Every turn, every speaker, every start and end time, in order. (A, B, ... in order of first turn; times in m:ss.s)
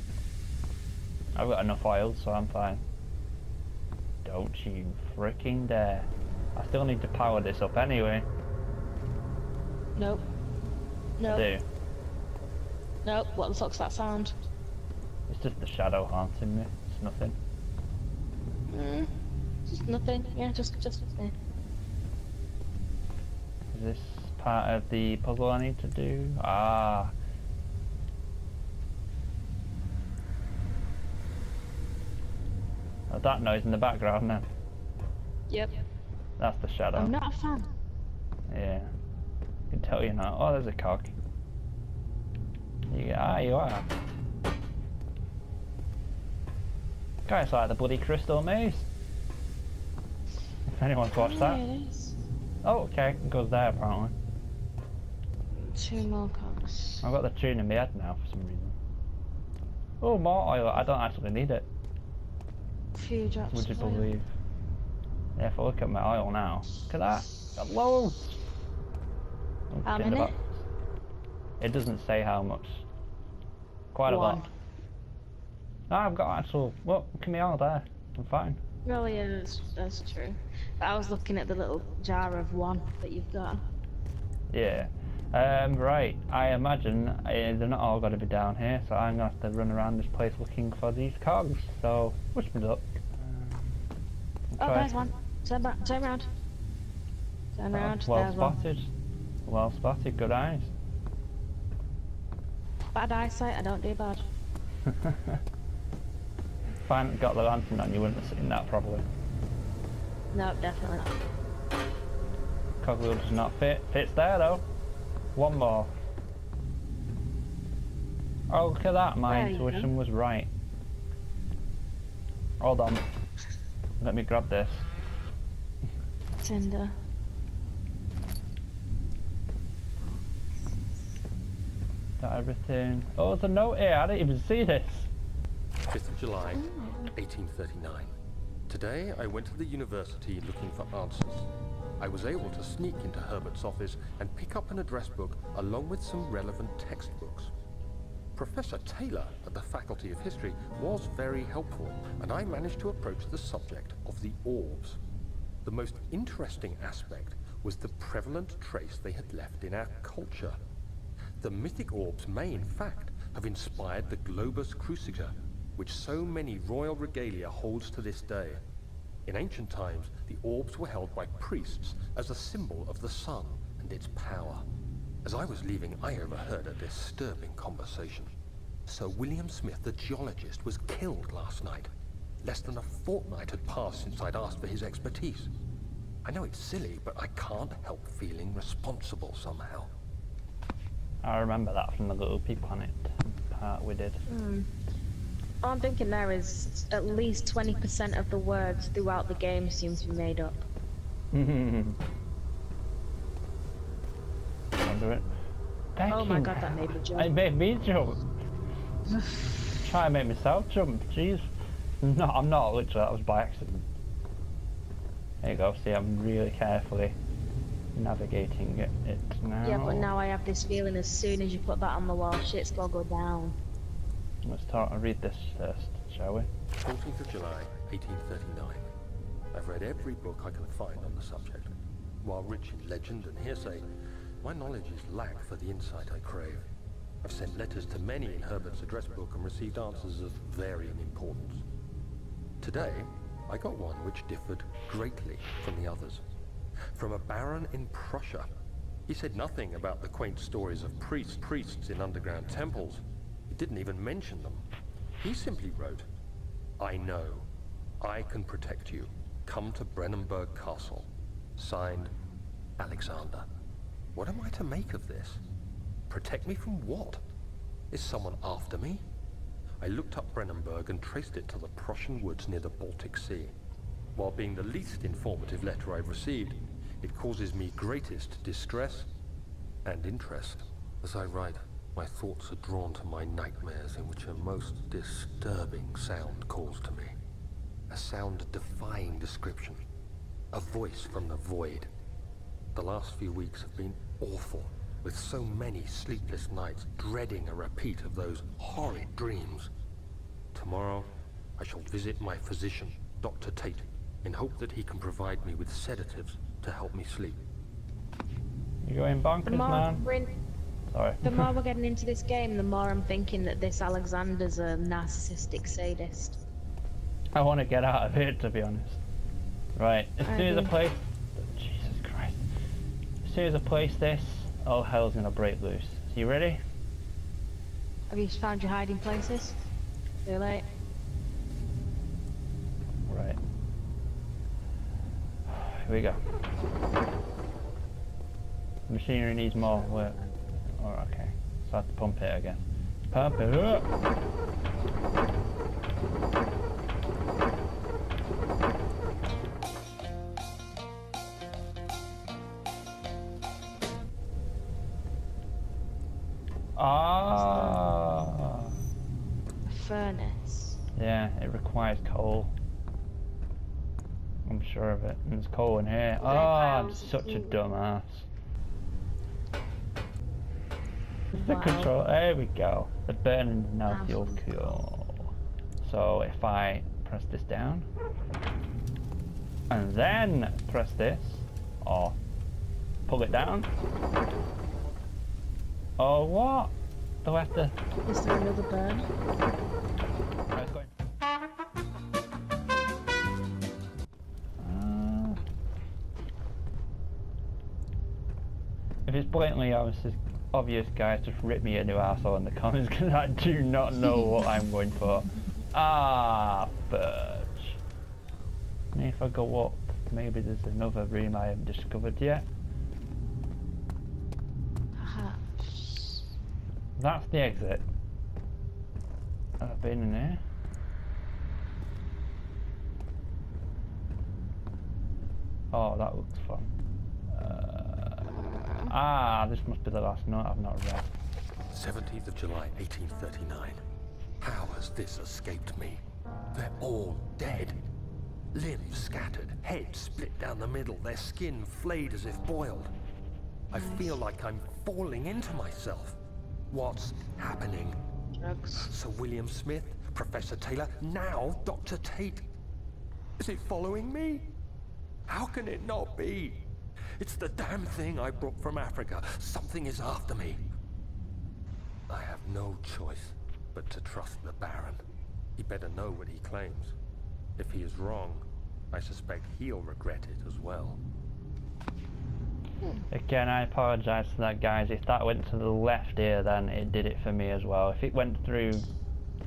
0:01.4-0:02.8 A
0:04.2-0:08.2 A
0:10.0-0:10.2 B
0:11.2-0:11.5 B
0:11.3-0:11.6 A
0:13.0-0:14.3 B
0:15.3-0:17.4 A
0:18.7-0:19.1 B
0:19.7-0:21.3 B
0:23.7-0:27.1 A
0:33.1-0:34.4 A
0:35.5-0:35.7 B
0:36.4-0:37.1 A
0:36.9-0:37.7 B
0:38.5-0:38.9 A
0:39.7-0:41.1 A
0:42.9-0:43.8 A
0:47.2-0:48.9 A
0:50.7-0:51.6 A
0:51.2-0:52.2 B
0:52.6-0:54.1 A
0:55.6-0:57.0 B
0:57.0-0:58.8 A
1:00.0-1:01.7 A
1:02.9-1:04.1 B
1:03.5-1:04.3 A
1:05.4-1:08.4 A
1:09.7-1:10.6 A
1:09.8-1:10.3 B
1:11.6-1:12.8 A
1:13.9-1:14.4 A
1:14.0-1:14.5 B
1:15.9-1:18.6 A
1:18.8-1:23.6 B
1:24.5-1:33.8 A
1:34.5-1:34.9 A
1:34.6-1:36.3 B
1:37.6-1:38.6 B
1:37.7-1:38.9 A
1:39.4-1:40.7 A
1:42.9-1:44.3 B
1:44.8-1:45.4 A
1:46.8-1:49.0 A
1:50.3-1:51.2 B
1:52.8-1:54.6 A
1:55.3-1:55.9 A
1:58.5-2:00.5 A
1:59.3-1:59.9 B
2:02.6-2:03.0 A
2:04.0-2:04.9 A
2:06.4-2:06.9 B
2:12.2-2:15.1 A
2:15.9-2:18.1 C
2:16.5-2:17.1 B
2:18.7-2:21.5 C
2:22.0-2:27.5 C
2:28.3-2:35.0 C
2:35.6-2:40.6 C
2:41.4-2:48.6 C
2:49.2-2:54.6 C
2:55.2-2:58.3 C
2:58.8-3:01.9 C
3:02.4-3:05.5 C
3:06.2-3:09.9 C
3:11.2-3:14.2 A
3:14.3-3:14.7 B
3:15.6-3:20.6 B
3:21.3-3:22.0 A
3:24.8-3:25.3 A
3:26.0-3:28.2 A
3:26.1-3:27.3 B
3:29.8-3:31.5 A
3:32.0-3:33.8 A
3:35.4-3:37.2 A
3:37.9-3:40.1 A
3:39.6-3:43.6 B
3:44.4-3:46.5 A
3:46.8-3:48.9 C
3:49.5-3:53.8 C
3:54.4-3:56.7 C
3:57.2-4:01.6 C
4:02.6-4:06.2 C
4:06.9-4:08.5 C
4:09.1-4:14.6 C
4:15.2-4:16.0 C
4:16.8-4:17.5 C
4:18.0-4:22.1 C
4:22.8-4:23.4 C
4:24.1-4:25.4 C
4:26.1-4:27.2 C
4:27.9-4:29.0 C
4:29.8-4:33.6 C
4:34.1-4:39.1 C
4:39.8-4:47.2 C
4:47.9-4:49.8 C
4:50.5-4:51.9 C
4:52.7-4:59.7 C
5:00.5-5:07.4 C
5:08.8-5:10.0 A
5:09.4-5:10.4 B
5:10.9-5:11.5 A
5:11.2-5:16.4 B
5:17.4-5:19.0 A
5:19.8-5:22.4 A
5:20.2-5:20.7 B
5:23.2-5:26.6 A
5:28.1-5:29.6 B
5:30.2-5:30.7 B
5:33.0-5:33.4 A
5:35.5-5:36.2 A
5:38.9-5:43.9 A
5:56.8-5:58.7 A
5:57.3-5:57.9 B
5:59.7-6:00.8 B
6:01.0-6:02.5 A
6:04.4-6:08.3 A
6:06.2-6:07.6 B
6:11.3-6:11.9 B
6:11.3-6:17.9 A
6:13.9-6:14.8 B
6:19.7-6:22.2 A
6:23.1-6:23.7 A
6:26.0-6:27.7 A
6:28.0-6:29.1 B
6:30.5-6:30.9 A
6:34.6-6:35.4 A
6:39.1-6:47.8 A
6:48.9-6:52.5 A
6:55.0-6:56.3 B
6:57.0-6:57.8 A
6:59.6-7:00.4 A
7:05.7-7:06.7 A
7:07.3-7:11.1 A
7:08.6-7:08.9 B
7:11.7-7:13.8 C
7:14.4-7:16.0 C
7:16.5-7:17.8 C
7:18.5-7:22.9 C
7:23.7-7:24.2 B
7:23.7-7:26.2 C
7:26.7-7:28.0 C
7:28.4-7:28.9 B
7:28.7-7:32.5 C
7:33.4-7:34.5 C
7:35.3-7:40.7 C
7:42.1-7:45.0 C
7:45.6-7:46.9 C
7:47.6-7:51.0 C
7:53.1-7:58.8 A